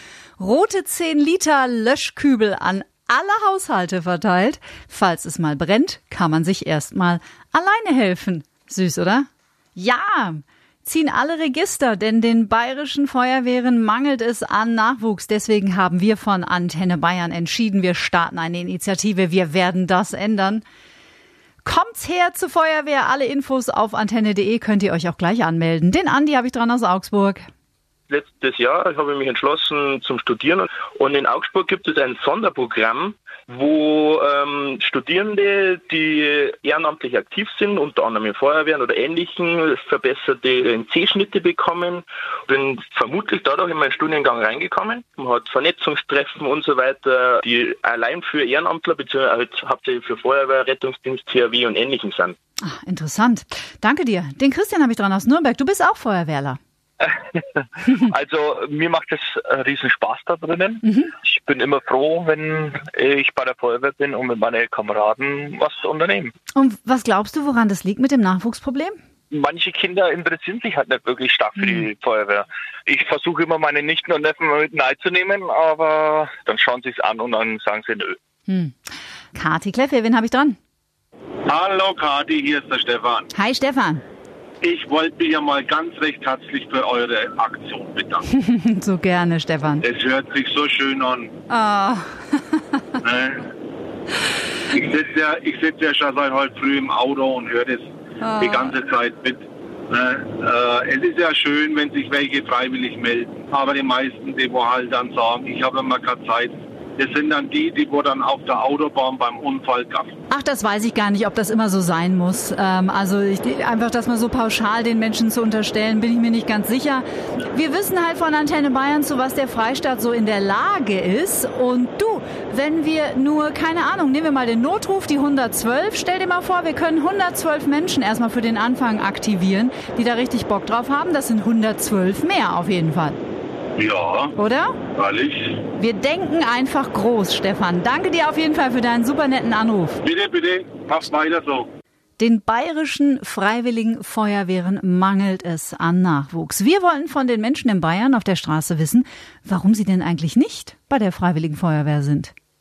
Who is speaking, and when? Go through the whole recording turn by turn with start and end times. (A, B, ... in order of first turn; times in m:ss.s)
0:00.4-0:20.6 A
0:21.6-0:27.4 A
0:28.1-0:52.4 B
0:52.6-0:56.6 A
0:57.9-1:06.3 C
1:06.6-1:09.0 A
1:09.3-1:18.2 C
1:18.5-1:18.7 A
1:19.3-1:20.6 A
1:21.5-1:23.3 D
1:23.3-1:24.0 A
1:24.6-1:28.2 D
1:28.4-1:29.8 A
1:29.8-1:31.3 D
1:31.5-1:32.1 A
1:33.0-1:33.4 D
1:34.7-1:37.8 D
1:38.2-1:38.7 A
1:38.4-1:50.1 D
1:50.3-2:13.2 A
2:13.8-2:14.3 D
2:14.4-2:14.7 A
2:15.0-2:15.6 D
2:15.8-2:20.0 A
2:20.0-2:21.7 D
2:22.2-2:32.3 A